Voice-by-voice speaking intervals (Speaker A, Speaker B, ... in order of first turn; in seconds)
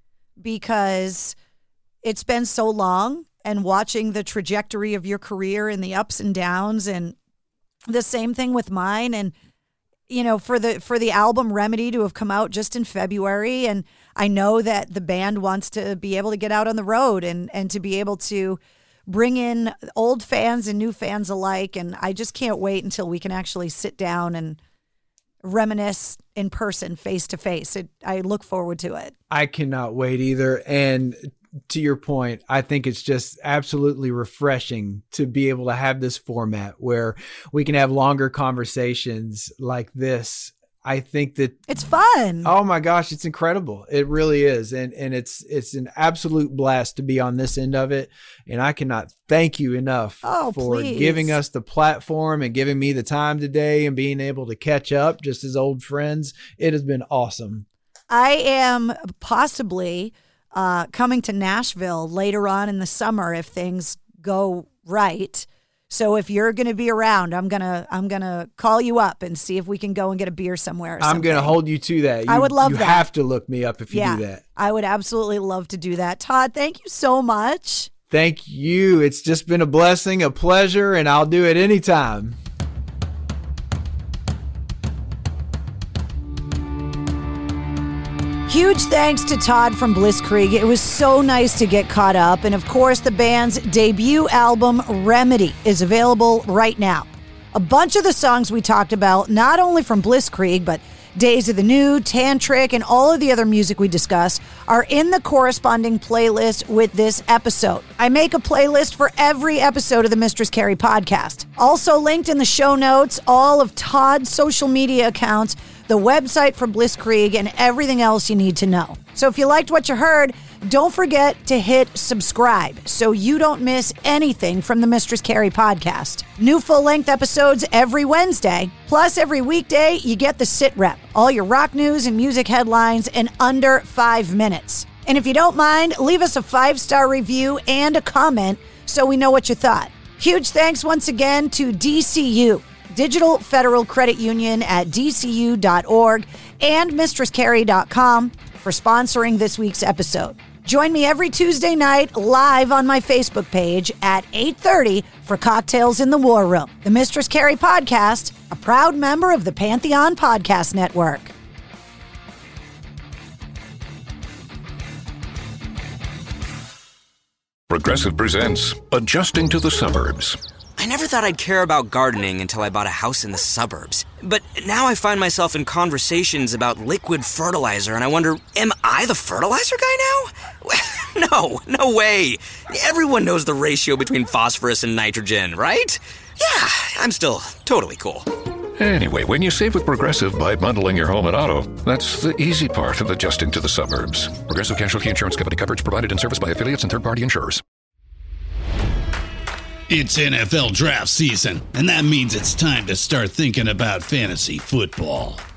Speaker A: 0.4-1.3, 2.0-7.2, 7.9-9.3, 10.1-24.6, 25.4-29.1, 41.7-42.5, 50.2-51.4, 58.1-71.6, 72.3-73.1, 73.9-77.9, 88.5-161.3
Speaker B: 29.3-41.6, 42.4-57.6, 71.0-74.4, 78.1-82.4
Speaker C: 167.7-170.4, 188.8-197.6
Speaker D: 170.8-188.3
Speaker E: 199.9-205.4